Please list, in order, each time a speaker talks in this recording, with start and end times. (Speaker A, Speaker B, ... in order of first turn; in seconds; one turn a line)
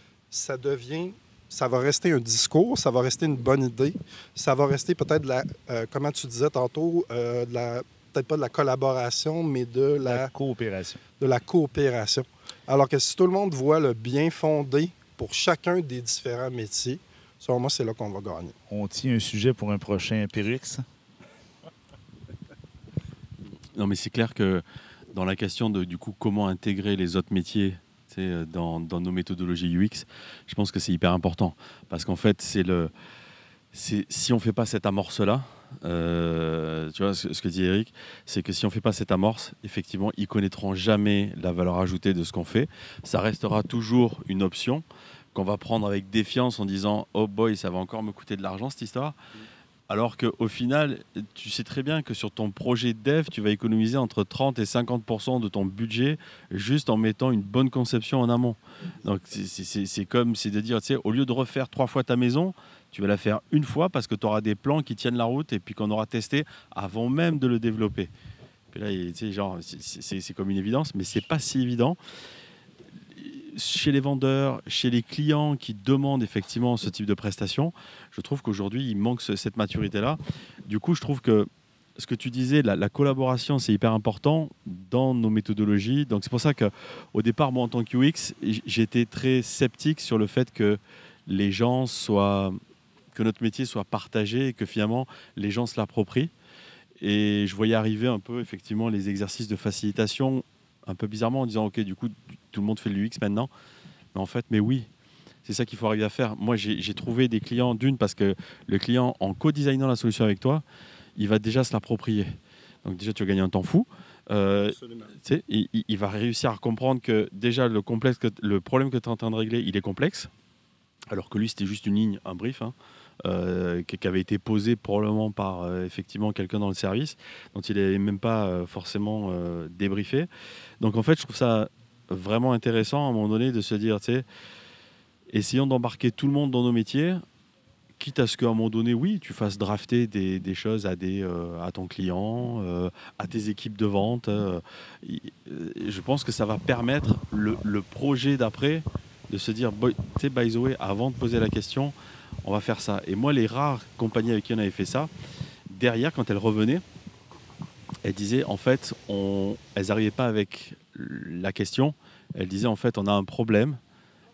Speaker A: 0.3-10.3
Speaker B: 10.0-11.0
Speaker A: 11.2-18.6
Speaker B: 18.7-20.8
Speaker C: 23.7-32.9
Speaker C: 33.7-49.2
Speaker C: 49.9-68.1
Speaker C: 68.7-72.0
Speaker C: 73.2-92.6
Speaker C: 93.1-96.3
Speaker C: 97.0-103.5
Speaker C: 104.1-104.9
Speaker C: 105.5-110.6
Speaker C: 111.2-120.3
Speaker A: 114.6-115.1
Speaker C: 121.1-122.7
Speaker C: 123.2-130.3
Speaker C: 130.8-134.2
Speaker C: 135.3-137.2
Speaker C: 138.0-155.1
Speaker C: 155.7-156.8
Speaker C: 158.0-163.8